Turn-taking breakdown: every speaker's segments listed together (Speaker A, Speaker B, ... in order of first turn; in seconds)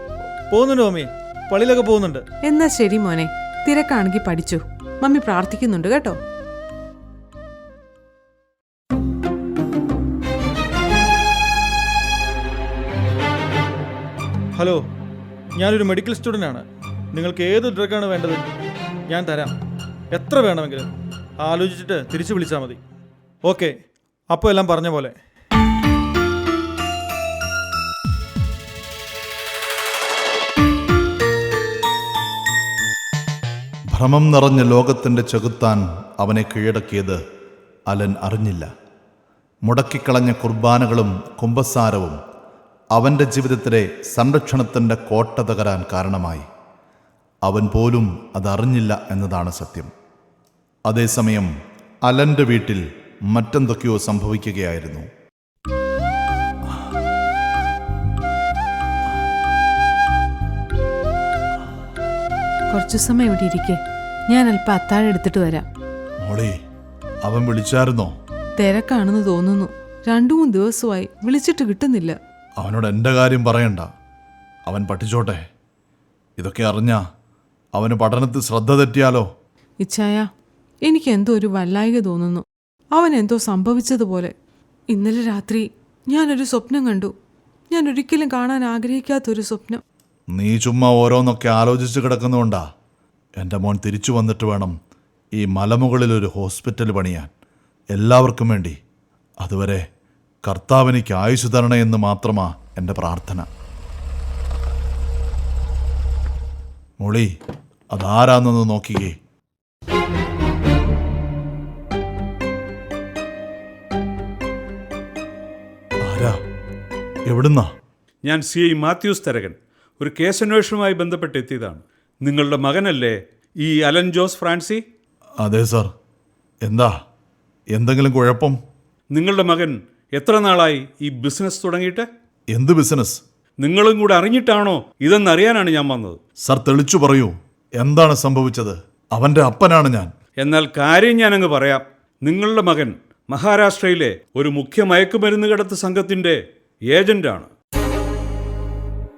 Speaker A: 0.5-2.2, 15.6-18.4, 19.1-19.5, 20.1-20.9, 21.4-22.8, 23.4-23.7, 24.3-25.1
Speaker B: 2.4-6.2, 62.7-65.7, 68.6-72.2, 79.8-80.3, 80.9-84.3, 84.9-87.1, 87.7-89.8
Speaker C: 33.9-37.2, 37.9-38.7, 39.6-42.2, 42.9-46.5, 47.4-49.9, 50.9-51.5, 52.1-55.1, 66.2-66.5, 67.2-68.1, 72.6-73.9, 74.7-75.4, 76.4-77.0, 77.7-79.3, 90.3-92.6, 93.4-94.7, 95.4-97.3, 97.9-98.8, 99.4-99.8, 100.4-103.5, 107.0-107.3, 107.9-109.2, 116.0-116.4, 117.3-117.7, 125.4-125.9, 126.6-126.9, 127.7-128.6, 132.5-133.2, 136.4-140.1
Speaker D: 118.2-124.8, 129.1-132.1, 133.6-136.2, 140.4-146.4, 146.9-147.5